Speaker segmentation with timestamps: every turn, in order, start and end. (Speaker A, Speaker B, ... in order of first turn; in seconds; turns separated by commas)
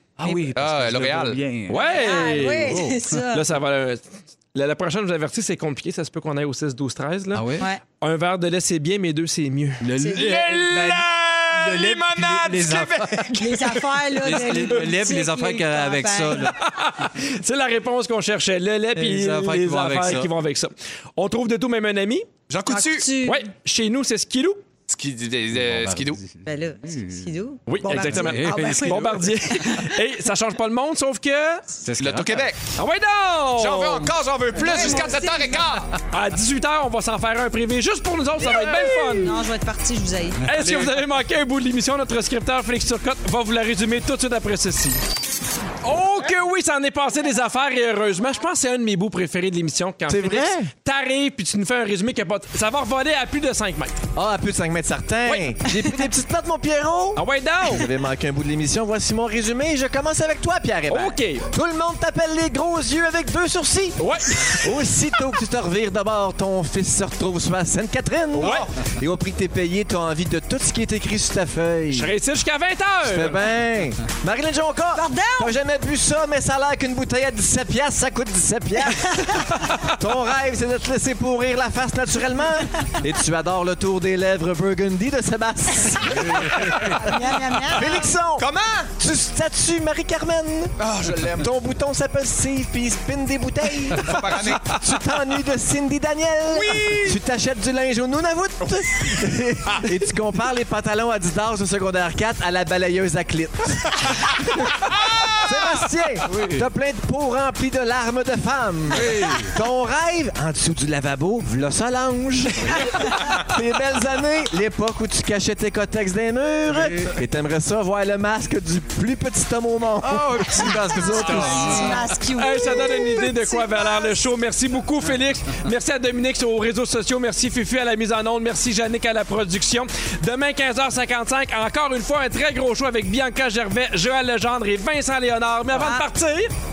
Speaker A: 0.2-3.2, Speaker B: 0.6-1.4, Speaker C: 1.7-2.8, Speaker D: 1.7-3.5, Speaker C: 3.3-7.5, Speaker A: 7.3-7.7, Speaker C: 8.0-9.9, Speaker A: 9.8-13.5, Speaker D: 10.0-10.3, Speaker B: 10.1-13.8, Speaker D: 13.3-16.6, Speaker A: 14.2-16.6, Speaker C: 16.5-22.3, Speaker A: 18.9-20.3, Speaker B: 22.5-23.1, Speaker D: 22.7-23.4, Speaker C: 23.2-24.6, Speaker B: 24.9-26.2, Speaker A: 25.5-27.3, Speaker D: 26.4-29.8, Speaker C: 27.7-31.6, Speaker A: 27.8-29.2, Speaker A: 31.8-32.5, Speaker B: 32.0-32.6, Speaker C: 32.8-35.2, Speaker B: 33.6-35.9, Speaker D: 34.6-35.8, Speaker C: 36.1-39.4, Speaker D: 38.6-40.4, Speaker C: 40.5-45.0, Speaker B: 40.6-41.0, Speaker C: 45.8-54.0, Speaker E: 50.1-50.7, Speaker E: 54.1-64.0, Speaker C: 55.3-55.5, Speaker C: 57.2-57.9, Speaker C: 60.9-61.5, Speaker C: 64.0-64.7, Speaker E: 64.5-72.1, Speaker C: 68.3-68.7, Speaker B: 68.4-68.7, Speaker C: 71.9-73.4, Speaker E: 73.0-86.9, Speaker D: 74.9-75.5, Speaker A: 86.1-87.1, Speaker D: 87.0-88.1, Speaker E: 87.7-88.5, Speaker B: 88.4-88.9, Speaker E: 89.0-90.7, Speaker B: 90.8-91.5, Speaker E: 91.3-121.8, Speaker B: 94.0-94.8, Speaker B: 96.7-97.0, Speaker C: 96.7-97.1, Speaker A: 106.2-106.7, Speaker A: 108.9-109.6, Speaker A: 112.6-112.9, Speaker A: 116.7-117.2, Speaker A: 120.0-122.2, Speaker D: 121.2-124.3, Speaker C: 121.5-136.5, Speaker D: 135.7-136.1